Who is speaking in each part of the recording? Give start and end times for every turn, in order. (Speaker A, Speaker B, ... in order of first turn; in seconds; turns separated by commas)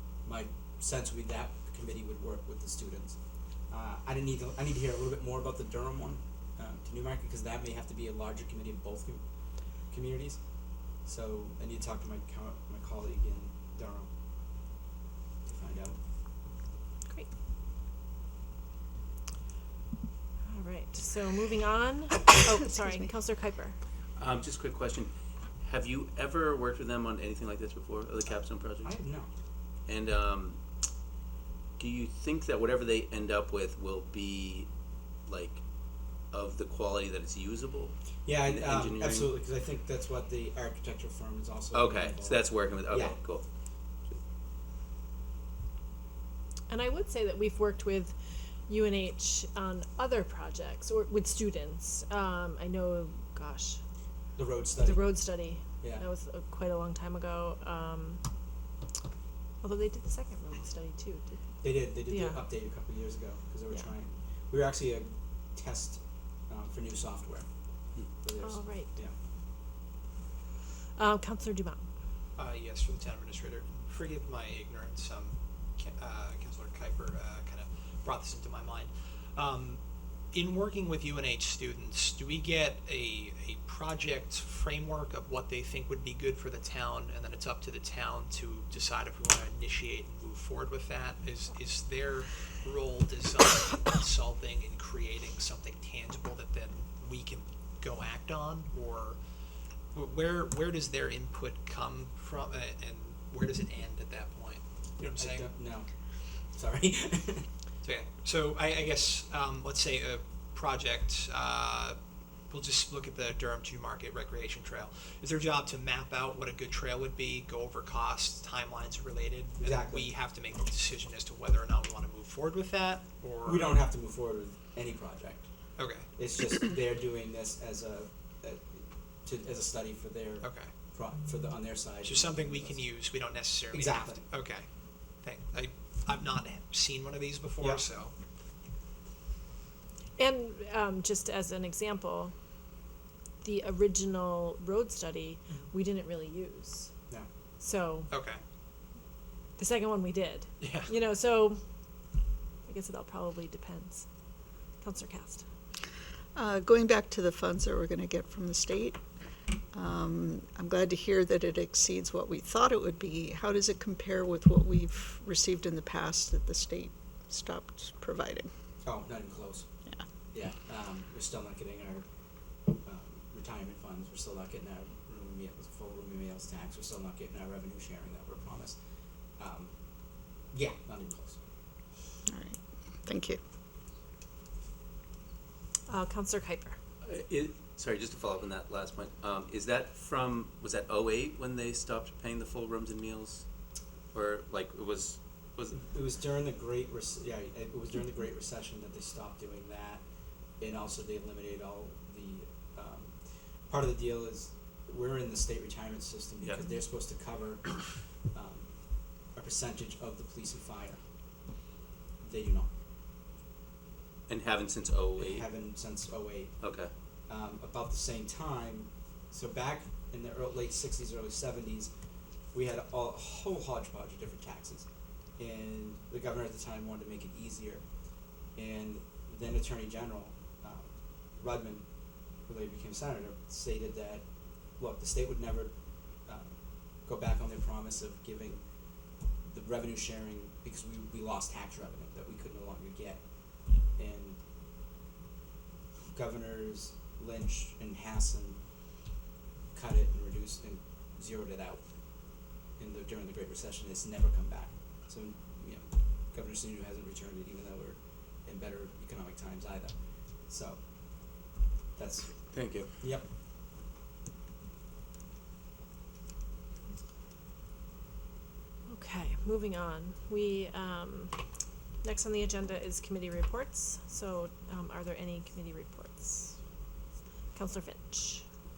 Speaker A: 0.2-9.2, Speaker A: 9.8-14.1, Speaker A: 15.4-16.0, Speaker B: 20.5-23.8, Speaker C: 22.4-23.1, Speaker D: 24.2-25.1, Speaker D: 25.6-29.0, Speaker A: 28.8-29.3, Speaker D: 29.9-30.6, Speaker D: 31.8-34.7, Speaker D: 35.2-35.6, Speaker D: 36.3-39.3, Speaker A: 38.2-43.2, Speaker D: 41.7-43.4, Speaker B: 46.7-48.1, Speaker B: 48.7-53.8, Speaker A: 54.4-55.2, Speaker B: 54.8-58.2, Speaker A: 55.8-56.0, Speaker B: 59.6-62.4, Speaker A: 61.6-67.5, Speaker A: 68.2-69.1, Speaker B: 68.4-69.0, Speaker B: 71.0-71.8, Speaker E: 72.3-79.8, Speaker E: 80.3-99.2, Speaker E: 99.9-105.5, Speaker A: 105.2-107.5, Speaker E: 107.8-112.0, Speaker E: 112.5-123.8, Speaker A: 119.6-120.1, Speaker A: 123.4-125.5, Speaker E: 125.8-126.1, Speaker A: 126.1-132.8, Speaker E: 130.4-130.7, Speaker E: 132.0-134.7, Speaker A: 133.7-134.2, Speaker E: 135.2-138.1, Speaker B: 140.2-142.3, Speaker B: 143.4-146.9, Speaker B: 147.6-148.1, Speaker E: 148.1-148.4, Speaker B: 149.6-151.6, Speaker E: 150.6-150.9, Speaker B: 152.7-154.1, Speaker B: 154.8-155.4, Speaker C: 156.3-159.0, Speaker C: 159.7-168.5, Speaker A: 168.8-169.7, Speaker A: 170.3-172.1, Speaker A: 172.7-178.8, Speaker A: 179.4-179.7, Speaker A: 180.5-181.4, Speaker C: 182.3-183.4, Speaker B: 185.9-186.8, Speaker D: 187.0-193.4, Speaker D: 194.1-195.8, Speaker A: 195.8-200.0, Speaker A: 200.6-211.0, Speaker A: 212.2-212.7, Speaker D: 214.3-215.5, Speaker A: 215.2-216.6, Speaker D: 216.6-216.9, Speaker A: 217.3-221.9, Speaker A: 222.5-227.8, Speaker A: 228.5-231.9, Speaker A: 232.4-238.6, Speaker A: 239.4-244.4, Speaker A: 246.1-248.7, Speaker A: 249.7-261.4, Speaker A: 261.9-263.3, Speaker D: 262.5-262.9, Speaker B: 268.9-271.5, Speaker B: 272.0-276.6, Speaker B: 277.5-278.4